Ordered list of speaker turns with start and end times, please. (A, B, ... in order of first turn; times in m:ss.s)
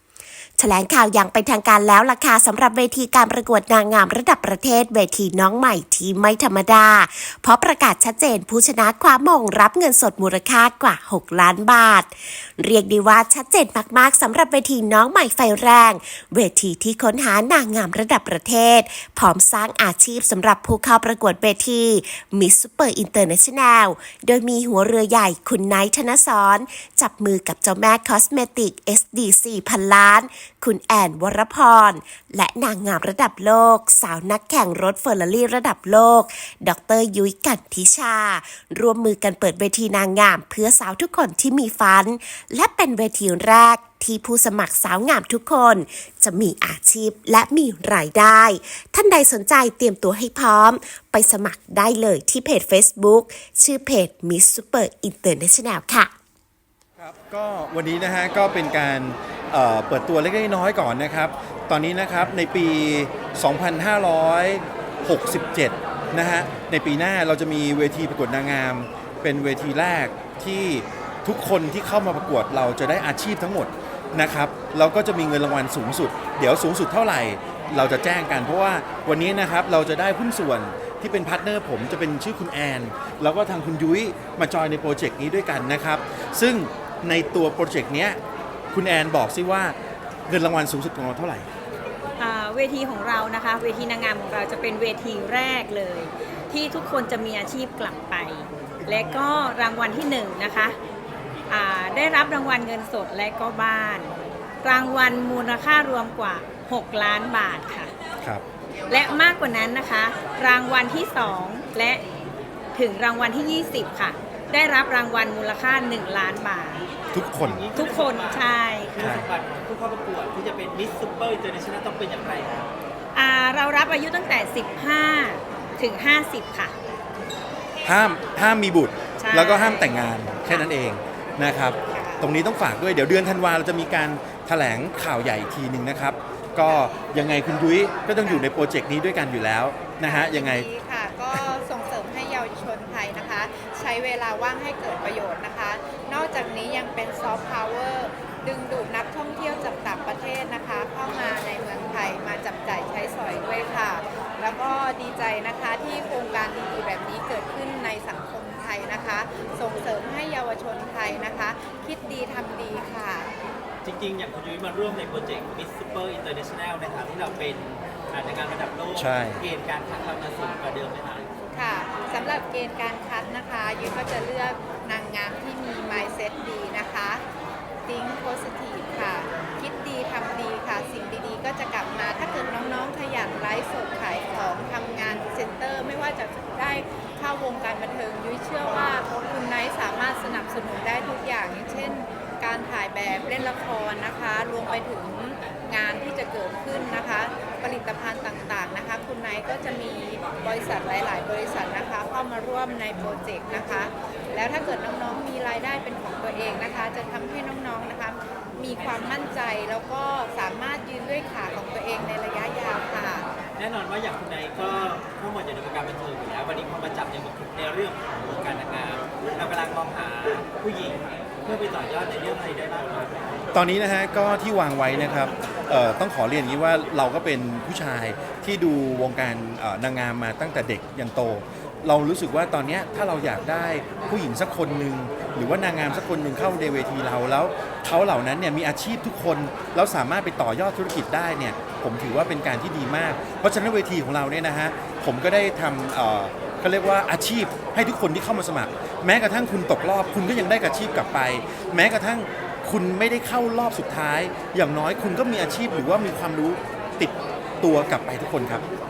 0:00.6-0:56.1 A
0:57.0-1:28.2 B
1:28.7-1:29.8 B
1:30.3-1:31.5 B
1:32.2-1:40.8 C
1:41.5-1:47.9 C
1:48.9-1:52.0 C
1:52.7-1:56.8 C
1:57.1-1:57.7 B
1:57.4-2:02.7 D
1:57.8-1:59.2 C
1:59.0-1:59.2 B
2:03.1-2:06.7 C
2:07.8-2:20.7 B
2:09.2-2:10.6 C
2:11.9-2:12.3 E
2:16.7-2:16.9 E
2:18.2-2:18.5 E
2:20.0-2:43.3 E
2:43.8-2:51.3 D
2:48.9-2:49.4 B
2:51.5-2:57.2 E
2:57.8-3:33.2 E
3:33.6-3:43.4 D
3:43.5-4:18.6 B